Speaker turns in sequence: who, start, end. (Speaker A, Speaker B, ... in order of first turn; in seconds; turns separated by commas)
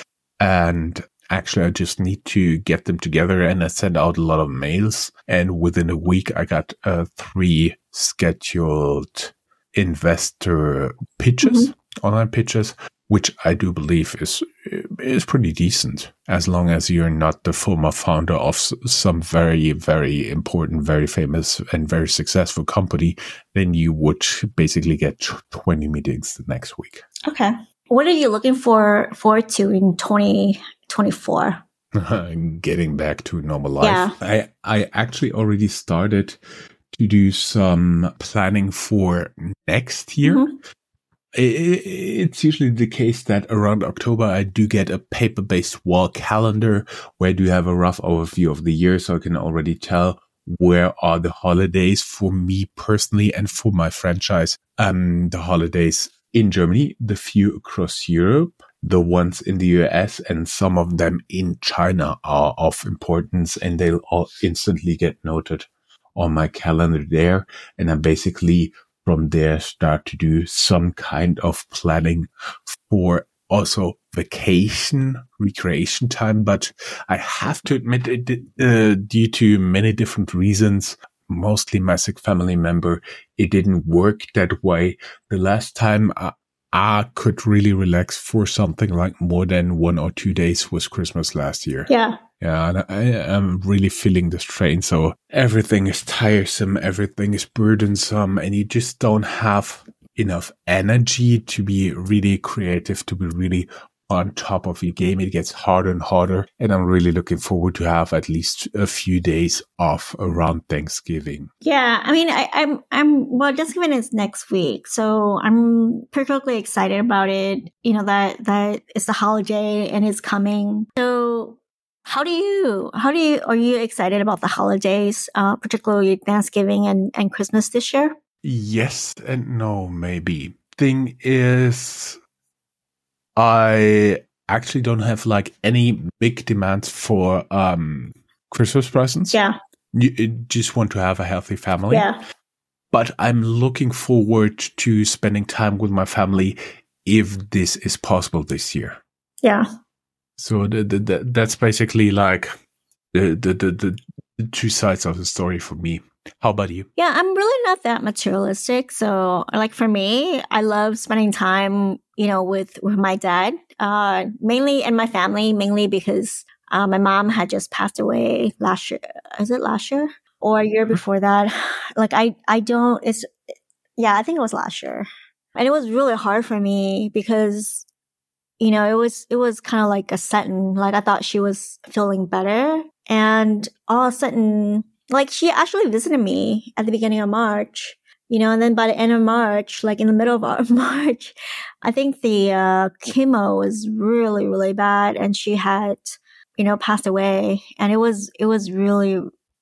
Speaker A: 0.4-27.0, Speaker B: 11.4-11.7, Speaker B: 27.2-31.6, Speaker A: 31.9-36.4, Speaker B: 33.8-34.1, Speaker A: 36.9-40.5, Speaker B: 40.2-40.5, Speaker A: 41.3-111.5, Speaker B: 91.9-92.2, Speaker B: 111.6-128.1, Speaker A: 128.4-132.2, Speaker A: 133.3-139.4, Speaker A: 139.9-142.1, Speaker B: 141.9-142.2, Speaker A: 142.9-149.0, Speaker A: 150.4-152.5, Speaker A: 153.1-156.9, Speaker B: 157.0-173.3, Speaker B: 174.0-177.8, Speaker B: 178.6-199.2